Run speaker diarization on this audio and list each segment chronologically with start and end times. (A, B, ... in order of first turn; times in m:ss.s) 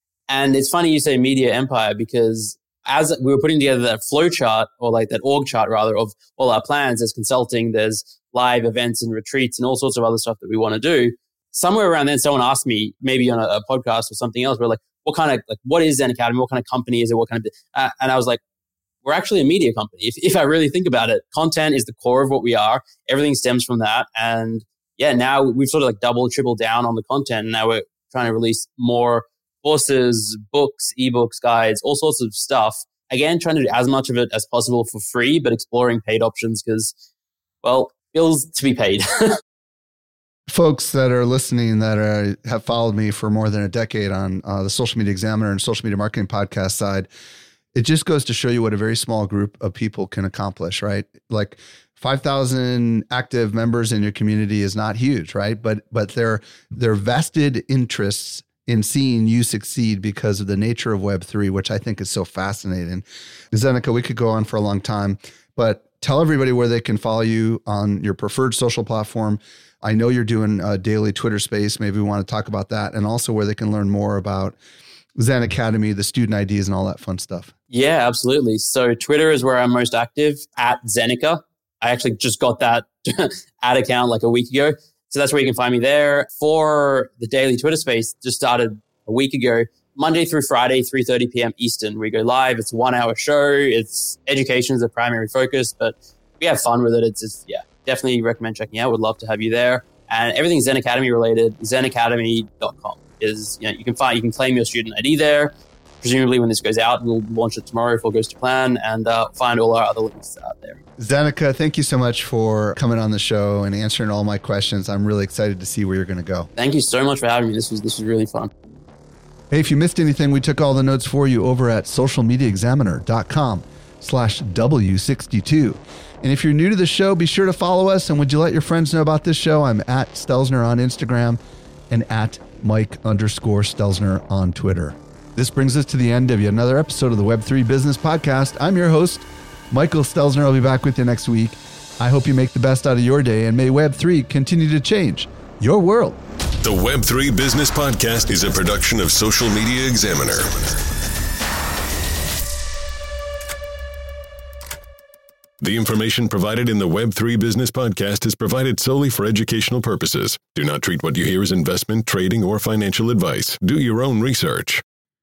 0:00.3-0:18.4 A
0:19.0-0:36.9 A
0:37.6-0:39.4 A
0:40.5-0:47.1 B
0:47.7-1:14.6 B
1:15.2-1:17.5 B
1:17.7-1:50.8 A
1:51.0-1:56.5 B
1:56.6-1:58.5 A
1:59.5-2:11.4 B
2:11.9-2:26.2 B
2:26.6-2:30.9 C
2:35.6-2:44.8 C